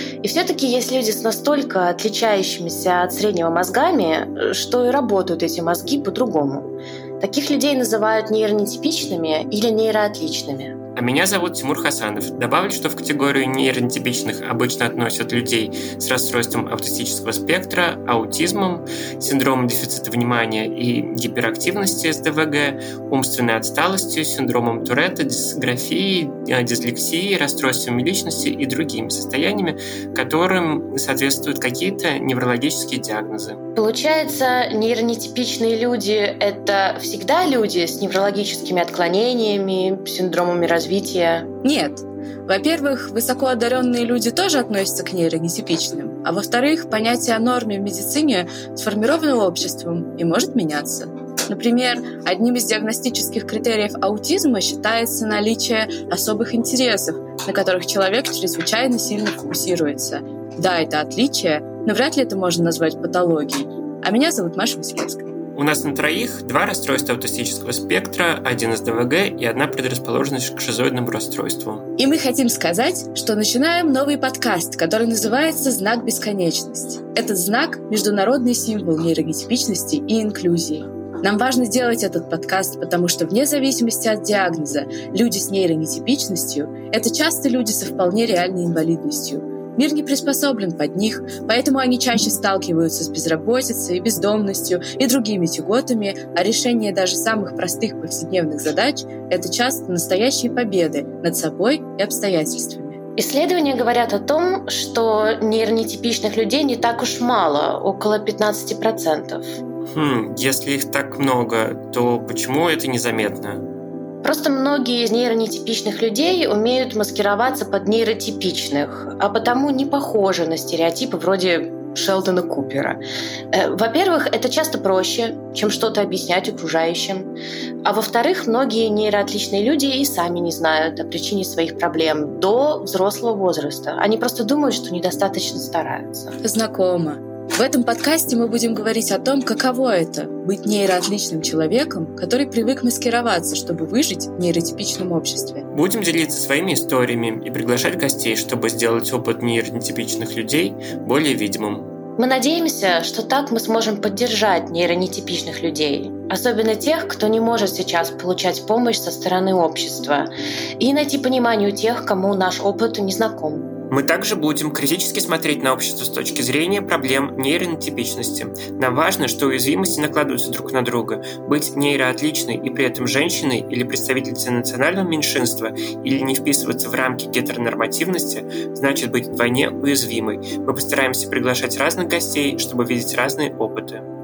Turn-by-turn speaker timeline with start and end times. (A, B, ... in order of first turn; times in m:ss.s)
0:00.2-0:10.8 A
0:11.0-0:33.6 B
0:33.7-0:41.5 A
0:41.6-1:05.3 C
1:05.5-1:11.9 B
1:12.0-1:43.0 C
1:43.2-1:49.6 A
1:49.9-1:53.6 B
1:54.2-2:03.0 A
2:03.5-2:07.3 A
2:07.8-2:16.4 A
2:16.4-2:25.6 C
2:25.7-2:31.9 B
2:32.2-2:43.7 A
2:43.9-3:04.0 B